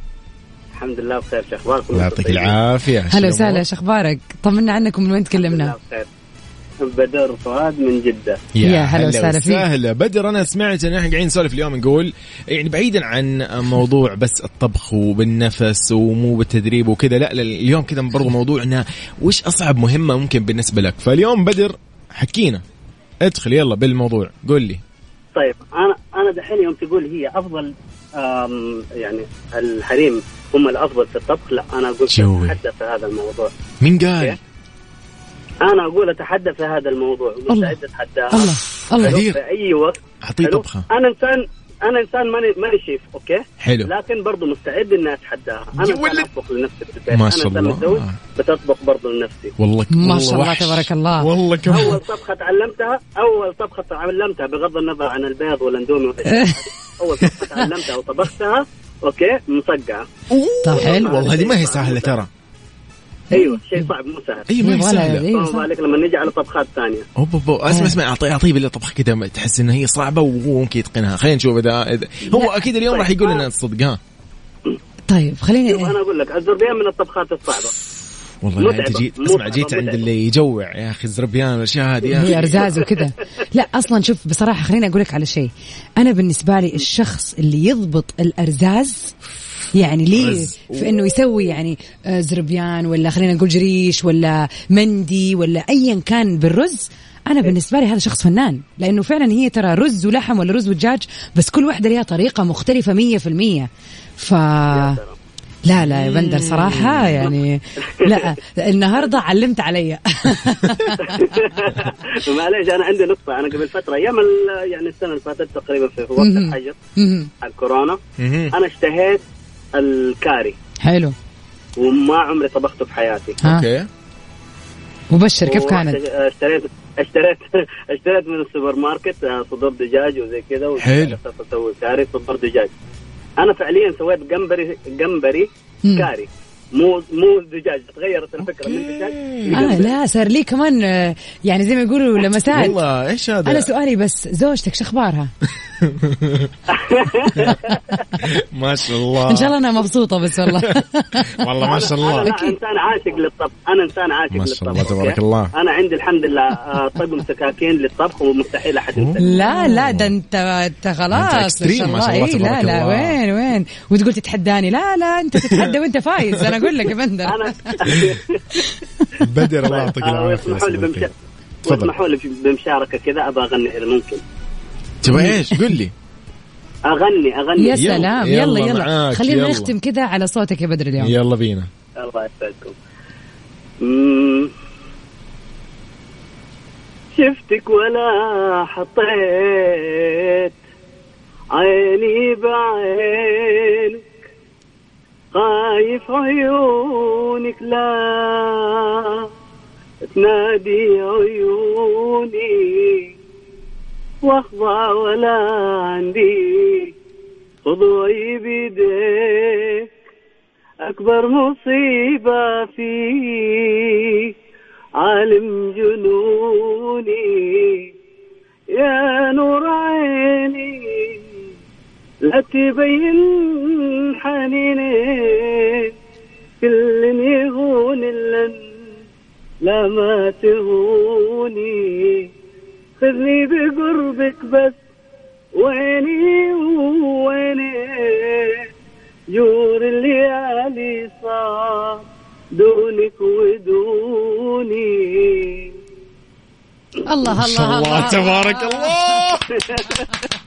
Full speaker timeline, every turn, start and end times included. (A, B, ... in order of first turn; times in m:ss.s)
0:00.7-0:02.6 A
0:01.9-0:03.6 B
0:03.1-0:05.7 C
0:05.4-0:06.1 A
0:06.8-0:08.4 A
0:08.5-0:22.6 B
0:08.6-0:09.6 C
0:23.2-0:24.8 B
0:25.3-0:33.5 A
0:32.1-0:32.6 B
0:33.8-0:34.4 B
0:35.6-0:49.5 A
0:37.5-0:37.8 C
0:38.3-0:39.2 C
0:39.0-0:39.4 B
0:40.2-0:40.8 B
0:43.6-0:43.9 B
0:45.8-0:46.3 B
0:47.1-0:48.2 B
0:49.6-0:52.0 B
0:49.9-0:51.3 C
0:51.7-1:00.1 A
0:56.3-0:56.6 C
1:00.3-1:02.3 B
1:00.6-1:01.0 C
1:00.7-1:02.2 A
1:03.3-1:03.9 C
1:03.3-1:04.5 A
1:04.5-1:05.2 B
1:04.6-1:05.7 C
1:05.3-1:07.0 A
1:07.2-1:14.0 B
1:07.7-1:08.0 C
1:12.7-1:13.4 A
1:15.1-1:15.9 C
1:15.7-1:17.7 A
1:18.4-1:22.7 B
1:18.6-1:20.0 A
1:22.1-1:23.1 A
1:22.1-1:29.1 C
1:29.7-1:45.0 C
1:30.1-1:30.9 B
1:44.7-1:45.2 A
1:45.6-1:51.3 C
1:45.8-1:47.2 B
1:51.0-1:56.8 A
1:56.2-1:57.3 C
1:57.4-1:58.0 A
1:58.2-1:58.5 B
1:58.5-1:59.2 A
1:59.7-2:00.5 A
2:00.8-2:01.1 C
2:01.8-2:03.4 A
2:03.4-2:03.9 B
2:05.1-2:06.0 C
2:05.4-2:12.7 A
2:10.8-2:11.2 B
2:13.4-2:20.0 A
2:18.5-2:19.8 B
2:19.5-2:22.8 C
2:22.5-2:23.7 B
2:23.4-2:25.3 C
2:25.6-2:26.5 B
2:26.7-2:28.0 A
2:28.2-2:29.6 B
2:29.3-2:32.6 C
2:30.4-2:30.7 B
2:31.3-2:32.3 B
2:31.6-2:39.6 A
2:34.3-2:35.5 B
2:39.0-2:40.1 B
2:39.2-2:48.0 C
2:41.1-2:43.2 B
2:45.4-2:45.7 B
2:47.2-2:51.1 A
2:49.2-2:51.1 B
2:51.6-2:51.9 B
2:51.6-2:54.2 A
2:55.0-2:55.9 B
2:55.1-2:55.7 C
2:56.9-2:58.1 A
2:57.6-3:01.1 C
2:57.8-2:59.7 B
3:01.0-3:01.7 B
3:02.0-3:02.7 A
3:03.8-3:04.5 A
3:07.1-3:10.6 A
3:11.5-3:14.2 A
3:15.3-3:19.2 A
3:20.1-3:23.1 A
3:24.2-3:26.9 A
3:27.6-3:29.8 A
3:30.8-3:34.3 A
3:35.0-3:37.9 A
3:38.7-3:41.1 A
3:42.2-3:45.9 A
3:46.6-3:48.6 A
3:49.6-3:52.3 A
3:53.0-3:54.8 A
3:55.6-3:58.6 A
3:59.3-4:05.7 A
4:07.0-4:09.2 C
4:07.2-4:09.6 B
4:09.6-4:10.0 A